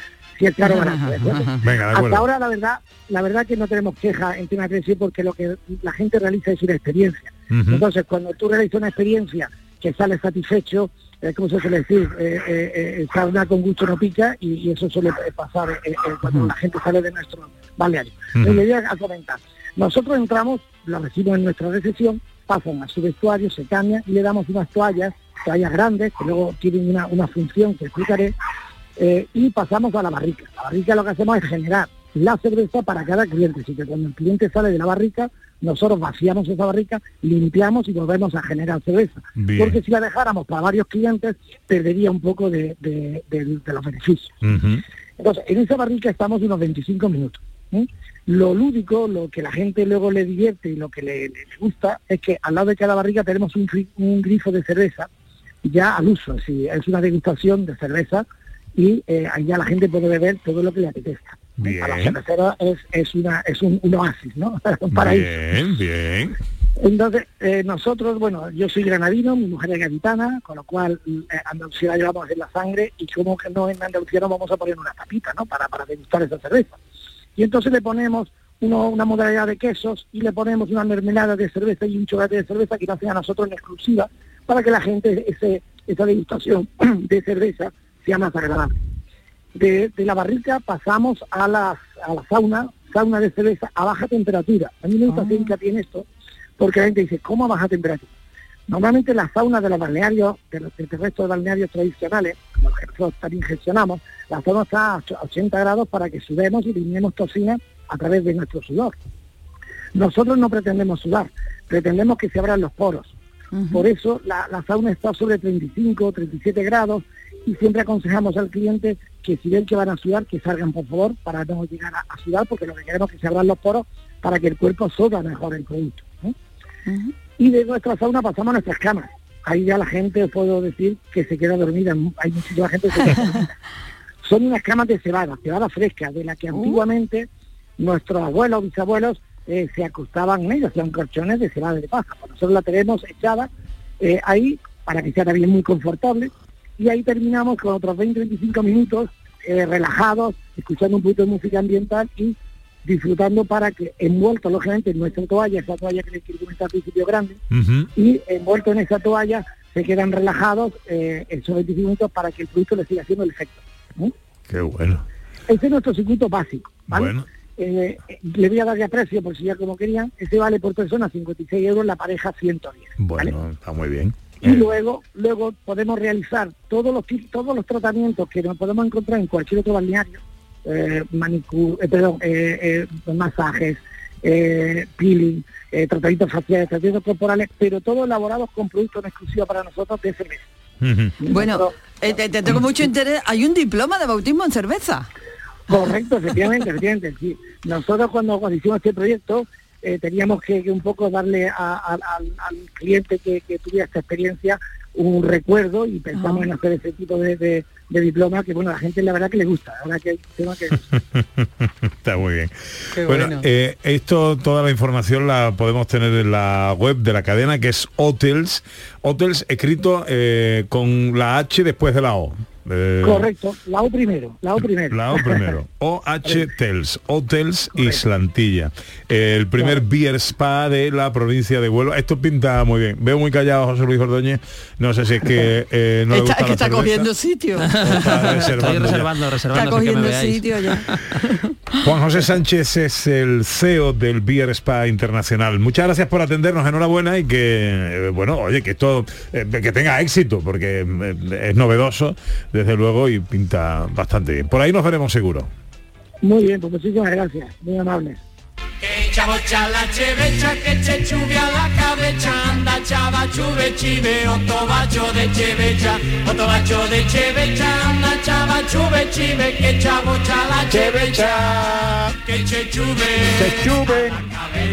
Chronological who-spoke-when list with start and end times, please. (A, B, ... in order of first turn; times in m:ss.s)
0:00.4-0:28.3 A
0:00.6-0:01.6 B
0:01.6-0:02.2 C
0:07.5-0:07.8 C
0:18.4-0:18.6 C
0:29.0-0:44.4 A
0:39.4-0:39.8 C
0:44.4-0:44.8 C
0:45.2-0:55.1 A
0:55.6-1:05.3 A
1:01.6-1:02.2 C
1:04.9-1:06.3 C
1:06.8-1:16.8 A
1:17.4-1:28.8 A
1:29.5-1:36.1 A
1:35.1-1:35.5 B
1:36.6-1:38.1 A
1:38.7-1:49.0 A
1:49.9-1:53.1 A
1:53.5-1:53.8 B
1:53.7-2:06.3 A
2:06.9-2:07.1 B
2:07.4-2:13.5 A
2:14.2-2:17.3 A
2:16.5-2:16.8 B
2:17.8-2:37.4 A
2:37.5-2:37.9 C
2:37.9-2:44.1 A
2:44.5-2:45.0 C
2:45.5-2:53.3 A
2:46.9-2:47.2 C
2:53.0-2:54.6 C
2:54.4-3:10.5 A
3:10.8-3:11.2 C
3:11.2-3:12.2 A
3:11.3-3:15.1 B
3:15.7-3:30.9 A
3:26.2-3:26.4 B
3:31.2-3:43.3 C
3:33.0-3:33.4 B
3:43.0-3:45.5 A
3:44.9-3:57.1 C
3:47.7-3:48.0 A
3:56.1-3:58.3 B
3:57.6-4:01.0 D
3:57.8-3:59.1 C
3:59.5-4:01.4 B
4:01.8-4:15.5 C
4:16.2-4:18.2 A
4:19.0-4:30.9 E
4:30.7-4:32.2 C
4:32.4-4:33.2 E
4:33.3-4:34.2 C